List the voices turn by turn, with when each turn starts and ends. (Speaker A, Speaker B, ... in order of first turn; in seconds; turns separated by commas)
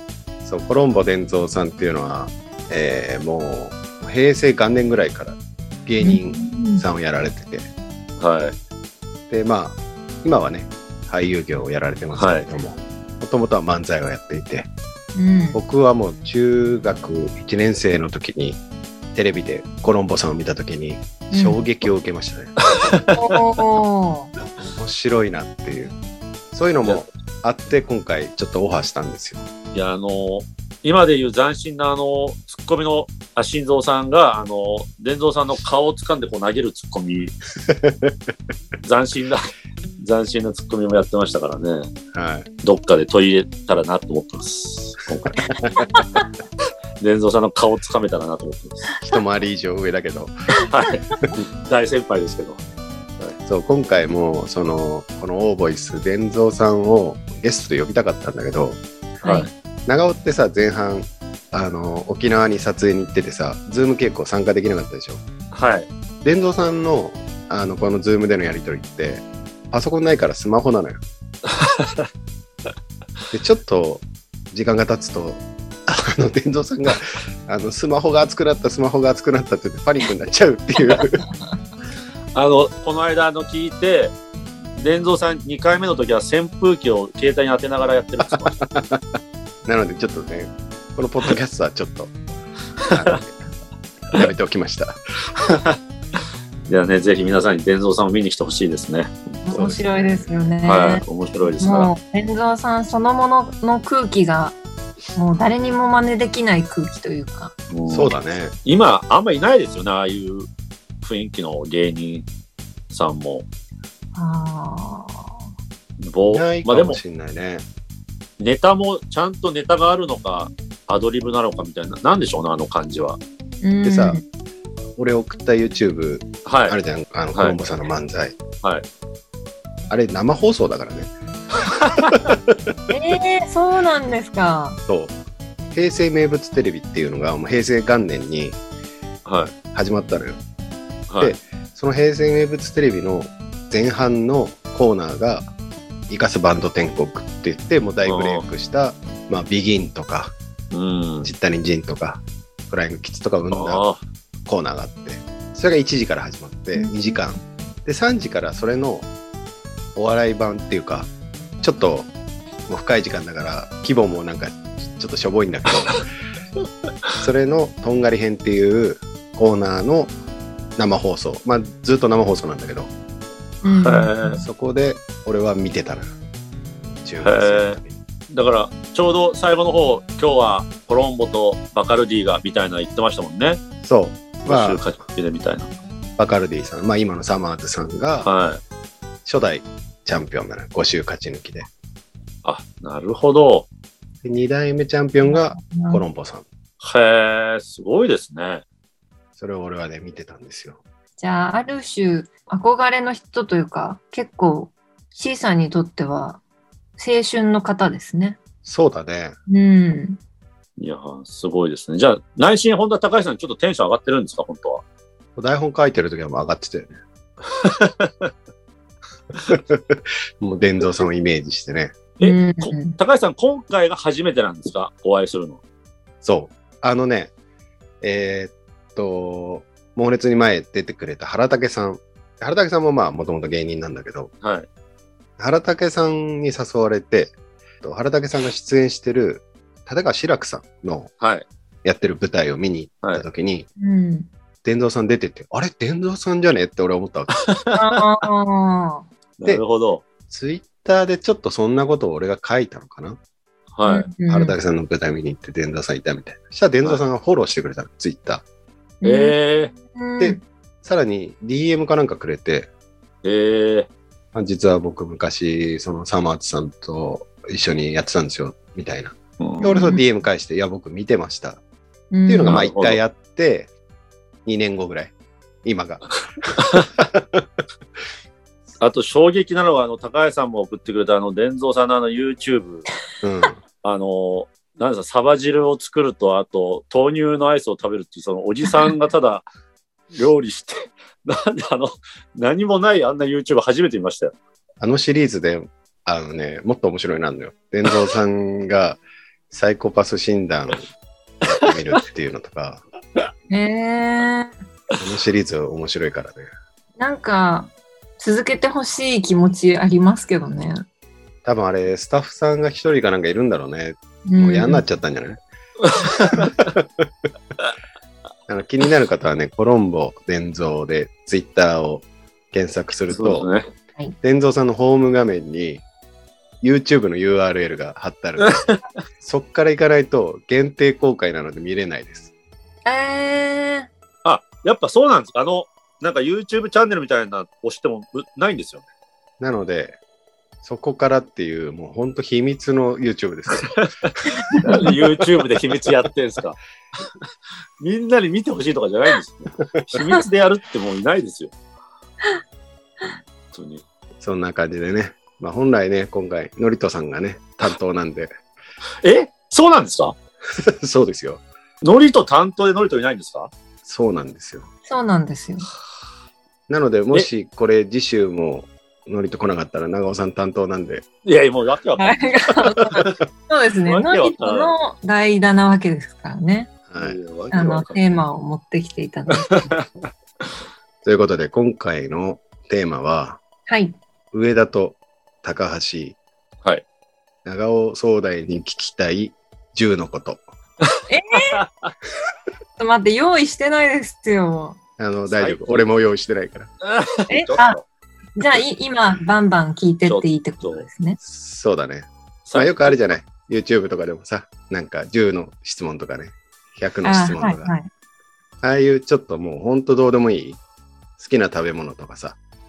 Speaker A: 0.4-7.7, Speaker B: 6.0-6.8, Speaker C: 8.2-8.6, Speaker A: 9.3-14.7, Speaker C: 12.2-12.5, Speaker B: 15.2-15.6, Speaker A: 15.5-18.6, Speaker A: 19.1-22.6, Speaker B: 21.3-21.7, Speaker C: 22.7-23.4, Speaker B: 23.1-24.3, Speaker A: 24.7-26.0, Speaker A: 26.5-29.5, Speaker C: 29.7-37.4, Speaker A: 37.6-38.2, Speaker C: 38.8-39.4, Speaker C: 40.0-41.9, Speaker A: 42.1-42.5, Speaker C: 42.6-45.4, Speaker A: 45.5-45.8, Speaker B: 45.9-46.2, Speaker C: 47.0-48.9, Speaker A: 49.0-50.3, Speaker C: 50.7-51.1, Speaker C: 51.7-52.6, Speaker A: 53.4-58.8, Speaker B: 59.2-59.5, Speaker C: 59.2-59.5, Speaker A: 59.9-65.2, Speaker C: 65.5-65.9, Speaker A: 66.2-71.0, Speaker C: 71.5-72.1, Speaker A: 73.3-81.2, Speaker C: 82.3-84.2, Speaker C: 84.8-88.5, Speaker A: 88.3-89.0, Speaker A: 89.7-92.1, Speaker A: 92.8-93.4, Speaker C: 92.9-93.2, Speaker A: 94.1-95.0, Speaker C: 95.4-95.8, Speaker C: 96.7-99.2, Speaker B: 99.5-101.0, Speaker A: 99.5-100.3, Speaker C: 100.7-101.9, Speaker B: 101.6-104.6, Speaker B: 105.2-107.5, Speaker C: 107.7-110.5, Speaker A: 107.9-108.6, Speaker C: 111.0-112.3, Speaker C: 112.9-113.5, Speaker B: 114.2-115.4, Speaker C: 116.0-117.0, Speaker A: 116.3-117.6, Speaker C: 118.4-123.2, Speaker B: 123.6-124.2, Speaker A: 123.8-124.2, Speaker A: 125.0-128.4, Speaker C: 126.5-126.8, Speaker A: 129.9-131.1, Speaker C: 131.8-132.3, Speaker A: 132.1-132.6, Speaker B: 132.9-134.8, Speaker A: 134.9-135.2, Speaker A: 135.7-138.6, Speaker C: 139.2-139.5, Speaker A: 139.7-140.4, Speaker C: 141.1-141.3, Speaker A: 141.2-145.5, Speaker A: 146.1-150.3, Speaker C: 148.1-148.4, Speaker C: 150.7-151.3, Speaker A: 151.2-153.8, Speaker C: 153.5-154.0, Speaker A: 154.5-159.1, Speaker B: 156.8-157.2, Speaker A: 160.0-161.1, Speaker A: 161.6-162.1, Speaker A: 162.7-166.1, Speaker A: 167.2-170.1, Speaker A: 170.8-172.9, Speaker B: 173.6-174.4, Speaker C: 173.7-174.4, Speaker A: 174.4-176.1, Speaker A: 177.0-178.0, Speaker C: 177.2-177.8, Speaker C: 178.3-183.6, Speaker A: 183.8-184.8, Speaker C: 184.4-185.7, Speaker A: 186.2-188.3, Speaker C: 188.2-188.6, Speaker A: 189.2-191.7, Speaker C: 192.4-193.7, Speaker A: 194.2-196.5, Speaker B: 195.2-196.0, Speaker C: 196.8-198.6, Speaker A: 199.4-200.8, Speaker B: 201.2-206.4, Speaker B: 207.0-208.4, Speaker A: 208.7-209.4, Speaker B: 209.5-210.2, Speaker C: 210.8-214.8, Speaker A: 215.4-216.9, Speaker C: 217.5-218.3, Speaker A: 219.5-222.0, Speaker C: 222.2-225.6, Speaker B: 222.2-223.0, Speaker A: 226.2-227.3, Speaker A: 228.0-234.3, Speaker C: 234.4-234.7, Speaker A: 235.4-241.1, Speaker C: 241.2-241.5, Speaker A: 241.8-243.7, Speaker B: 243.8-244.3, Speaker A: 244.6-247.4, Speaker C: 247.3-248.0, Speaker B: 247.8-249.1, Speaker C: 249.4-250.0, Speaker A: 250.3-253.2, Speaker C: 253.8-254.1, Speaker B: 253.9-254.6, Speaker A: 254.3-258.4, Speaker B: 259.0-259.4, Speaker C: 259.0-259.7, Speaker B: 259.9-260.4, Speaker A: 260.2-262.7, Speaker C: 263.2-263.9, Speaker A: 264.3-271.6, Speaker C: 269.4-269.8, Speaker B: 269.7-270.0, Speaker B: 272.1-272.6, Speaker A: 272.3-273.7, Speaker C: 272.5-273.0, Speaker A: 274.4-275.1, Speaker A: 275.6-277.5, Speaker C: 276.6-276.9, Speaker C: 278.8-282.9, Speaker A: 283.2-283.6, Speaker C: 283.8-289.4, Speaker C: 290.1-294.3, Speaker A: 294.8-300.8, Speaker A: 301.4-302.8, Speaker B: 303.5-304.5, Speaker A: 305.0-306.5, Speaker B: 307.0-310.9, Speaker A: 311.4-315.4, Speaker B: 314.3-314.8, Speaker C: 315.9-316.4, Speaker A: 316.3-317.0, Speaker A: 318.5-323.5, Speaker C: 323.1-323.7, Speaker A: 324.2-325.8, Speaker A: 326.6-328.6, Speaker C: 328.4-328.8, Speaker A: 329.2-332.3, Speaker B: 332.9-333.9, Speaker C: 334.2-338.9, Speaker A: 339.4-340.0, Speaker A: 340.6-343.8, Speaker C: 343.8-346.6, Speaker A: 344.8-345.1, Speaker C: 347.8-351.5, Speaker C: 353.0-353.8, Speaker A: 354.2-358.3, Speaker C: 359.0-360.2, Speaker A: 360.5-361.4, Speaker C: 361.8-363.5, Speaker A: 363.9-364.7, Speaker B: 364.9-365.7, Speaker A: 366.7-371.1, Speaker C: 371.2-372.2, Speaker B: 372.0-376.7, Speaker C: 373.9-374.8, Speaker A: 376.9-377.2, Speaker C: 377.0-378.0, Speaker B: 377.5-379.7, Speaker C: 379.3-379.9, Speaker A: 381.0-383.4, Speaker B: 383.7-384.0, Speaker A: 384.3-386.2, Speaker A: 387.4-390.4, Speaker B: 391.1-391.6, Speaker C: 391.4-391.9, Speaker B: 392.8-394.8, Speaker A: 395.0-396.7, Speaker C: 395.3-395.8, Speaker C: 396.8-397.8, Speaker B: 397.3-397.8, Speaker B: 398.4-401.2, Speaker C: 400.1-400.9, Speaker A: 401.2-407.7, Speaker C: 402.5-403.0, Speaker B: 407.0-407.9, Speaker A: 408.6-410.6, Speaker A: 411.2-412.4